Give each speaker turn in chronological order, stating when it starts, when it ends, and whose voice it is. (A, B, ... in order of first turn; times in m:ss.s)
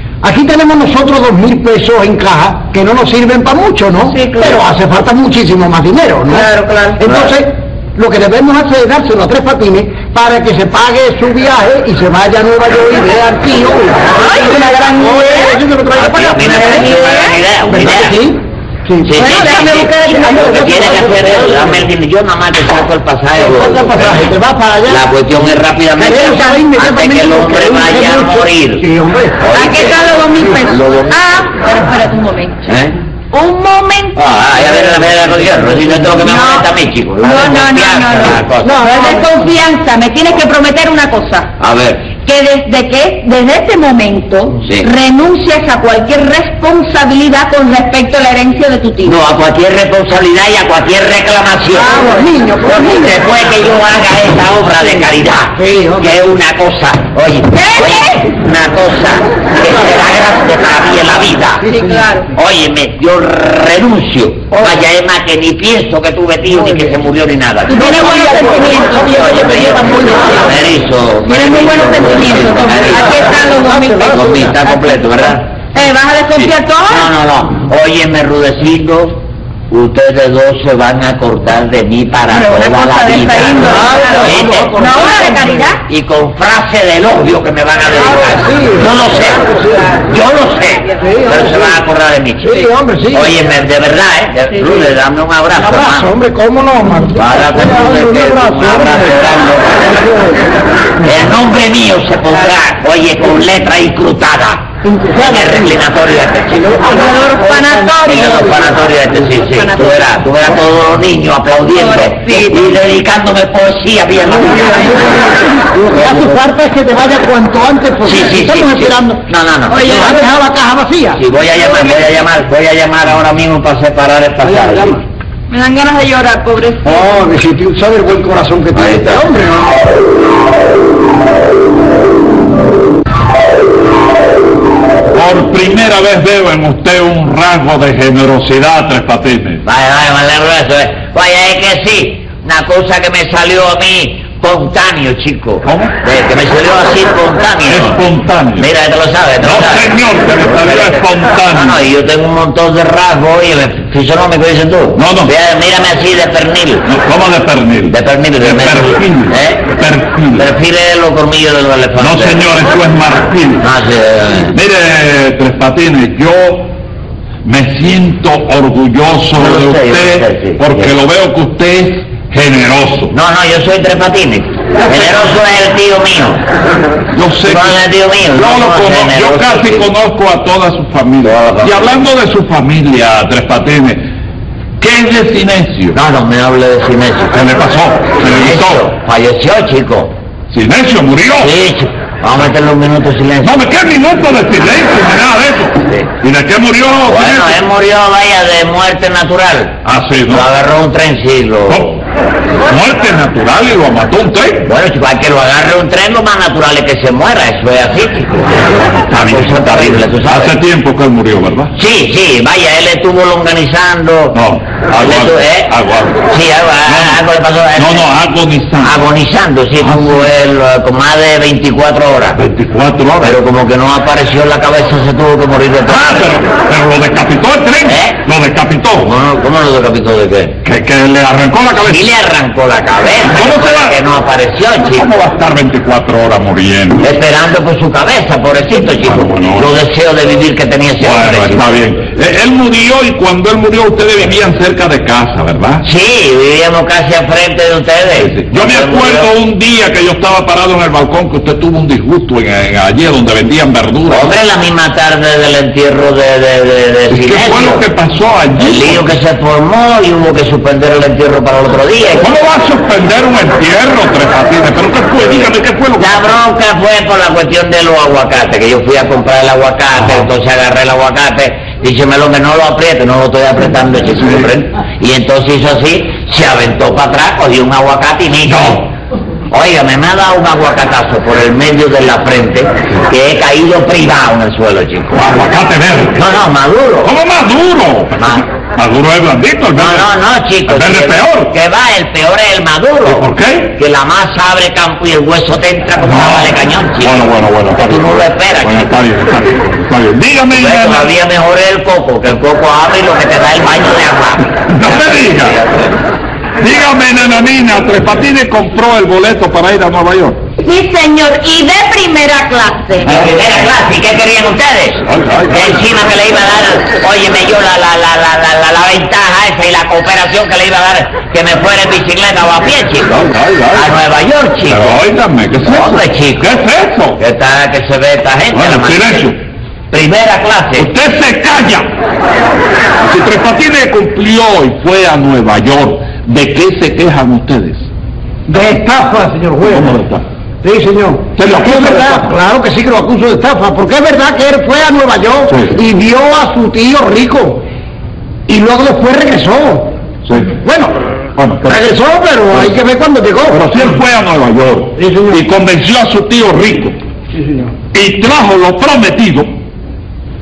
0:00.2-0:21.9 A
0:04.0-0:04.6 B
0:06.3-0:07.0 B
0:14.1-0:15.6 B
0:15.9-0:18.3 C
0:16.4-0:17.4 B
0:19.0-0:24.2 C
0:19.1-0:20.7 B
0:23.4-0:25.1 A
0:24.9-0:28.9 C
0:26.0-0:29.5 A
0:29.4-0:30.0 C
0:29.5-0:32.6 B
0:30.6-0:30.8 A
0:30.8-0:31.1 C
0:32.7-0:33.0 C
0:33.3-0:34.3 B
0:34.2-0:38.9 C
0:36.2-0:36.7 B
0:37.2-0:41.5 B
0:38.6-0:39.3 A
0:41.6-0:42.1 C
0:42.2-0:49.2 B
0:49.0-0:52.1 C
0:51.7-0:53.2 A
0:52.6-1:01.7 C
0:55.6-0:56.2 A
0:57.5-0:58.3 B
1:01.6-1:02.0 A
1:01.6-1:02.3 B
1:02.3-1:13.3 C
1:06.5-1:07.0 A
1:07.7-1:10.4 B
1:07.8-1:10.5 A
1:11.2-1:14.4 B
1:13.1-1:14.7 A
1:14.1-1:15.5 C
1:15.7-1:17.1 B
1:16.4-1:36.1 C
1:22.3-1:25.8 B
1:23.6-1:25.7 A
1:28.0-1:29.9 A
1:31.0-1:31.8 A
1:32.4-1:33.4 A
1:35.6-1:40.4 A
1:37.1-1:39.8 C
1:41.0-1:46.8 C
1:45.1-1:45.4 A
1:46.8-1:48.7 B
1:48.0-1:55.3 C
1:49.4-1:50.1 B
1:51.7-1:52.6 B
1:54.4-2:01.2 A
1:56.0-1:56.3 C
1:58.0-2:00.2 C
1:59.7-2:00.3 B
2:01.2-2:05.0 C
2:01.5-2:02.1 B
2:04.4-2:05.0 A
2:05.5-2:07.1 B
2:06.8-2:09.9 A
2:08.8-2:09.2 C
2:15.1-2:19.6 D
2:19.6-2:28.0 C
2:25.6-2:26.0 D
2:27.7-2:28.7 D
2:28.6-2:29.9 C
2:29.4-2:31.8 D
2:30.4-2:36.9 C
2:35.0-2:35.3 D
2:36.8-2:40.5 D
2:37.9-2:39.7 C
2:40.3-2:42.4 C
2:42.0-2:43.7 D
2:43.6-2:44.6 C
2:44.5-2:46.7 D
2:47.4-2:53.1 D
2:49.4-2:50.9 C
2:53.1-2:56.5 C
2:57.1-2:57.8 D
2:57.5-2:59.9 C
2:58.3-3:04.1 D
3:01.2-3:01.9 C
3:04.8-3:06.0 D
3:05.9-3:07.5 C
3:07.3-3:08.8 D
3:08.2-3:10.1 C
3:10.5-3:11.5 D
3:11.4-3:13.6 C
3:13.4-3:17.6 D
3:17.1-3:21.9 C
3:19.8-3:20.5 D
3:21.7-3:22.0 D
3:22.6-3:24.7 D
3:24.6-3:30.5 C
3:29.1-3:31.7 D
3:31.8-3:34.4 C
3:34.3-3:36.3 D
3:35.0-3:35.7 C
3:36.3-3:38.1 C
3:36.8-3:37.2 D
3:37.8-3:39.0 D
3:38.8-3:42.4 C
3:39.8-3:40.3 D
3:42.4-3:43.4 D
3:43.2-3:46.3 C
3:45.9-3:49.1 D
3:47.9-3:48.2 C
3:49.0-3:50.6 C
3:50.6-3:52.1 D
3:51.7-3:55.1 C
3:53.2-3:54.0 D
3:54.9-3:57.0 D
3:57.0-4:01.8 C
3:59.0-3:59.7 D
4:01.0-4:05.8 D
4:05.8-4:09.3 C
4:08.2-4:14.3 D
4:14.1-4:17.8 C
4:17.1-4:19.1 D
4:18.6-4:22.3 C
4:22.2-4:26.4 D
4:26.0-4:38.9 C
4:38.5-4:38.8 D
4:39.5-4:45.2 C
4:45.1-4:46.2 D
4:46.1-4:47.1 C
4:47.0-4:50.1 D
4:48.2-4:48.4 C
4:49.8-4:58.9 C
4:50.7-4:51.5 D
4:53.0-4:53.7 D
4:56.0-5:01.1 D
5:00.5-5:05.9 C
5:04.7-5:05.6 D
5:06.6-5:10.4 D
5:10.6-5:13.2 B
5:13.0-5:25.0 C
5:15.1-5:15.8 D
5:23.1-5:24.0 D
5:24.7-5:27.2 D
5:25.6-5:26.5 C
5:27.2-5:29.3 C
5:28.5-5:29.4 D
5:29.9-5:30.9 C
5:30.8-5:31.9 D
5:33.0-5:37.9 D
5:38.5-5:39.9 A
5:39.7-5:40.2 D
5:40.6-5:47.7 A
5:41.4-5:42.3 D
5:45.5-5:45.8 D
5:48.5-5:50.0 A
5:50.2-5:50.6 D
5:50.6-5:51.0 A
5:51.4-5:51.8 D
5:51.6-5:53.7 A
5:53.5-5:57.0 D
5:55.0-5:55.4 A
5:57.3-5:57.7 A
5:57.9-5:59.5 D